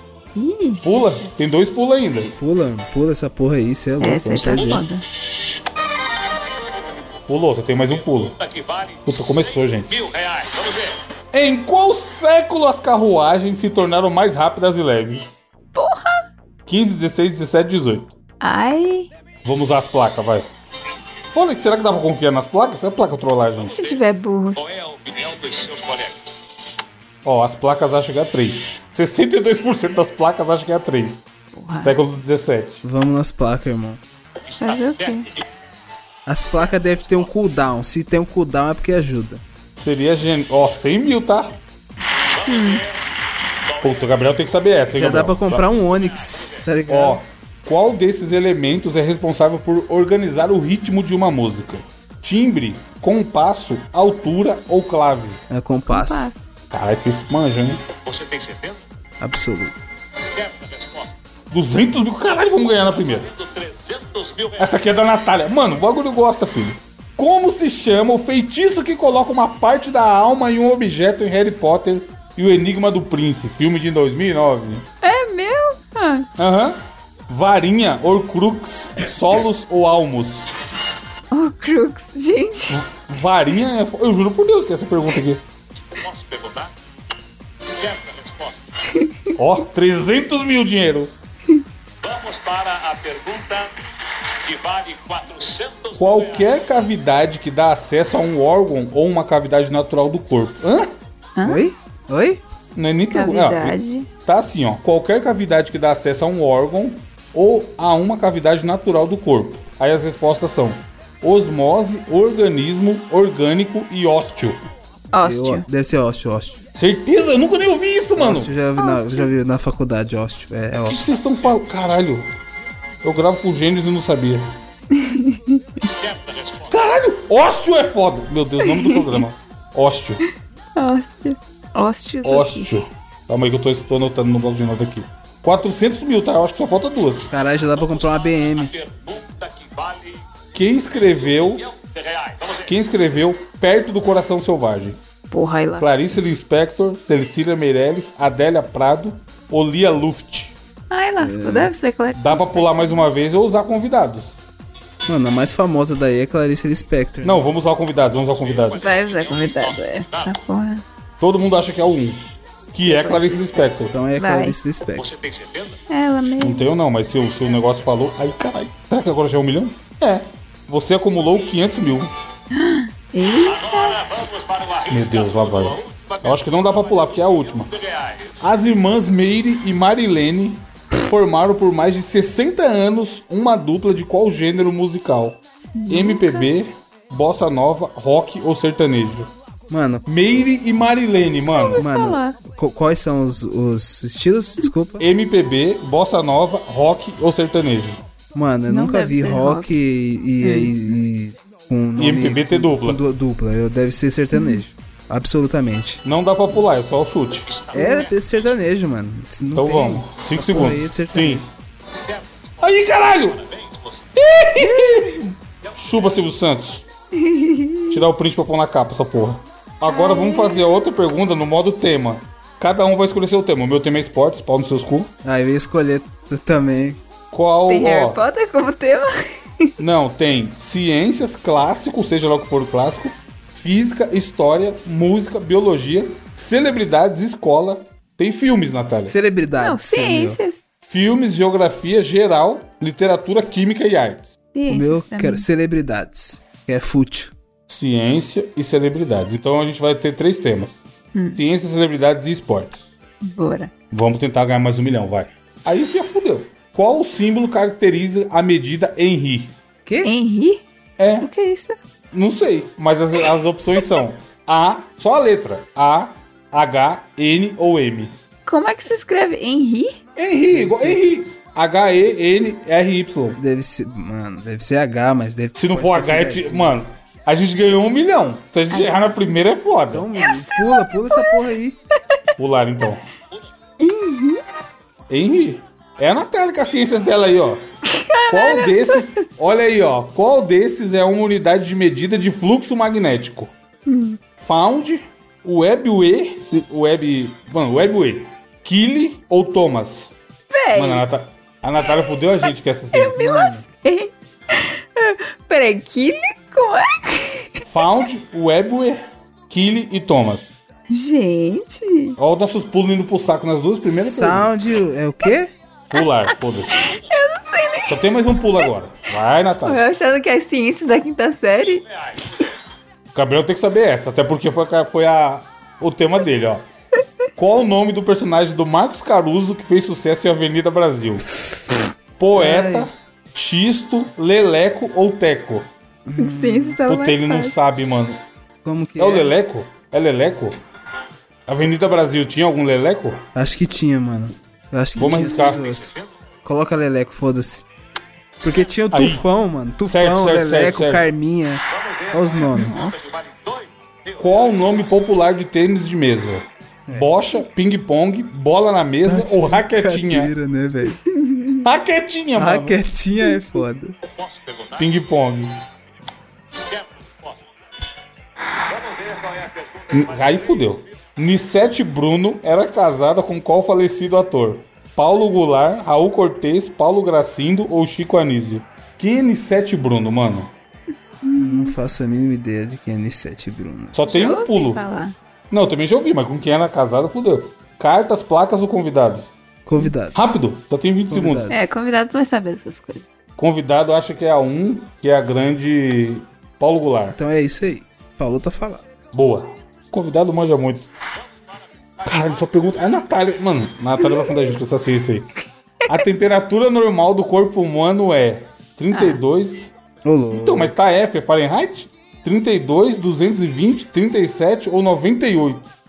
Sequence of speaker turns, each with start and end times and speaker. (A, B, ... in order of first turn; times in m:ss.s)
0:00.4-0:00.9 A
0:00.8-0:02.4 B
0:02.4-0:04.8 C
0:04.0-0:05.0 A
0:07.3-0:08.4 B
0:08.2-0:11.0 D
0:09.1-0:09.9 B
0:11.3-0:15.4 B
0:15.7-0:16.2 A
0:16.7-0:18.1 B
0:18.4-0:19.1 A
0:19.4-0:20.5 B
0:21.3-0:23.8 B
0:23.6-0:24.0 D
0:23.7-0:24.7 A
0:24.6-0:26.3 D
0:27.2-0:31.2 B
0:31.5-0:32.0 A
0:31.8-0:32.8 B
0:32.8-0:34.0 C
0:34.6-0:35.4 D
0:34.6-0:35.3 A
0:36.3-0:39.4 C
0:36.6-0:37.4 D
0:39.8-0:41.6 B
0:42.3-0:43.0 D
0:42.5-0:42.8 A
0:43.7-0:44.4 D
0:43.8-0:45.7 B
0:44.9-0:47.2 C
0:45.8-0:46.7 D
0:46.9-0:55.4 B
0:55.5-0:56.3 C
0:55.9-0:56.4 A
0:56.7-0:57.8 B
0:58.0-0:58.8 D
0:59.2-0:59.8 C
1:00.1-1:01.2 D
1:01.5-1:03.3 B
1:02.8-1:04.7 D
1:04.6-1:14.9 B
1:15.0-1:16.3 A
1:16.4-1:20.5 B
1:21.3-1:22.8 A
1:22.7-1:25.4 B
1:25.9-1:26.7 D
1:27.6-1:28.7 D
1:28.9-1:29.4 A
1:29.4-1:31.2 B
1:32.0-1:33.7 D
1:34.4-1:36.6 D
1:36.0-1:40.9 B
1:41.4-1:41.7 A
1:41.4-1:42.4 C
1:42.8-1:54.6 B
1:43.1-1:44.1 A
1:55.1-1:55.7 A
1:55.2-1:56.6 C
1:56.8-1:58.5 B
1:58.1-2:01.1 C
1:58.8-1:59.3 A
2:00.8-2:02.3 B
2:03.0-2:04.5 B
2:04.9-2:05.9 A
2:05.8-2:06.8 D
2:06.7-2:10.2 B
2:08.6-2:09.2 A
2:10.8-2:12.8 A
2:12.2-2:17.3 B
2:17.3-2:18.7 C
2:17.7-2:20.2 D
2:20.6-2:21.6 B
2:21.2-2:22.7 D
2:22.7-2:25.0 B
2:25.3-2:26.0 A
2:25.8-2:30.6 B
2:30.9-2:33.1 A
2:31.2-2:31.7 C
2:32.2-2:34.4 B
2:35.1-2:37.5 C
2:37.2-2:38.8 B
2:38.2-2:40.3 D
2:38.8-2:40.8 A
2:41.2-2:44.0 B
2:42.8-2:43.6 A
2:43.9-2:45.1 C
2:44.2-2:44.6 A
2:45.0-2:45.8 D
2:45.9-2:46.7 A
2:46.4-2:52.1 B
2:47.4-2:48.1 D
2:52.5-2:54.0 A
2:53.4-2:58.4 D
2:54.9-2:57.7 B
2:58.4-3:09.3 B
3:05.8-3:06.5 A
3:09.7-3:10.1 C
3:10.1-3:11.9 B
3:11.4-3:12.4 A
3:11.6-3:15.1 C
3:15.0-3:18.0 B
3:18.4-3:26.0 C
3:18.7-3:19.7 A
3:20.4-3:20.7 A
3:22.0-3:23.0 B
3:26.0-3:27.5 B
3:27.5-3:28.2 D
3:27.7-3:31.4 C
3:29.6-3:31.4 B
3:31.9-3:32.7 D
3:32.6-3:33.4 B
3:33.3-3:34.0 D
3:34.2-3:35.2 B
3:34.6-3:35.2 C
3:35.8-3:36.8 B
3:37.1-3:38.0 A
3:37.9-3:45.1 B
3:39.9-3:40.7 A
3:45.2-3:47.0 C
3:47.3-3:48.2 B
3:47.7-3:49.8 A
3:49.8-3:59.2 B
3:59.1-4:00.4 C
3:59.6-4:00.6 A
4:00.9-4:04.3 B
4:04.5-4:05.5 A
4:04.7-4:07.3 C
4:07.7-4:10.8 B
4:11.2-4:11.4 A
4:11.4-4:12.9 B
4:13.2-4:13.7 A
4:13.9-4:19.5 B
4:19.9-4:20.1 C
4:20.0-4:20.6 A
4:21.0-4:21.3 B
4:21.2-4:21.8 A
4:22.1-4:28.1 B
4:28.5-4:30.0 A
4:30.2-4:33.4 B
4:30.5-4:31.2 C
4:33.4-4:36.8 C
4:35.6-4:40.1 B
4:38.7-4:39.0 A
4:39.9-4:41.8 C
4:40.2-4:41.4 A
4:42.4-4:43.1 B
4:43.8-4:44.4 A
4:45.1-4:47.6 B
4:47.9-4:49.2 A
4:48.3-4:53.5 B
4:53.9-4:54.2 A
4:54.4-5:00.2 B
5:00.5-5:01.0 A
5:00.8-5:03.3 B
5:02.9-5:07.6 A
5:03.2-5:03.6 C
5:07.7-5:10.6 B
5:10.9-5:12.2 A
5:12.2-5:14.5 B
5:13.8-5:15.5 C
5:15.9-5:16.9 B
5:16.3-5:18.0 A
5:17.9-5:19.8 B
5:19.6-5:21.8 A
5:21.8-5:22.1 D
5:23.1-5:26.7 B
5:27.4-5:31.3 B
5:32.2-5:35.7 B
5:32.3-5:32.9 C
5:36.0-5:36.8 C
5:36.2-5:37.6 A
5:36.9-5:38.2 B
5:38.6-5:39.3 C
5:39.0-5:40.6 B
5:41.5-5:43.2 B
5:43.4-5:47.7 C
5:45.0-5:45.6 B
5:45.4-5:46.1 D
5:48.4-5:52.8 C
5:48.9-5:49.2 B
5:49.8-5:51.0 B
5:51.7-5:54.8 D
5:52.5-5:53.1 A
5:54.2-6:00.3 B
5:56.9-5:57.1 C
5:59.0-6:01.0 C
6:00.9-6:01.6 A
6:01.6-6:02.8 B
6:02.4-6:04.0 C
6:04.2-6:04.8 D
6:04.8-6:05.6 B
6:06.5-6:07.4 D
6:08.7-6:10.6 D
6:09.9-6:20.5 B
6:21.2-6:21.8 A
6:21.4-6:24.0 C
6:23.9-6:24.8 B
6:24.1-6:25.2 A
6:25.5-6:29.3 B
6:29.7-6:30.4 C
6:30.1-6:31.5 B
6:31.1-6:31.7 C
6:31.5-6:33.1 A
6:33.4-6:37.2 B
6:37.1-6:38.8 C
6:39.1-6:40.9 B
6:42.0-6:42.4 D
6:42.0-6:45.3 B
6:44.0-6:44.3 A
6:45.9-6:49.7 B
6:48.9-6:49.2 A
6:50.0-6:50.7 C
6:50.3-6:55.7 B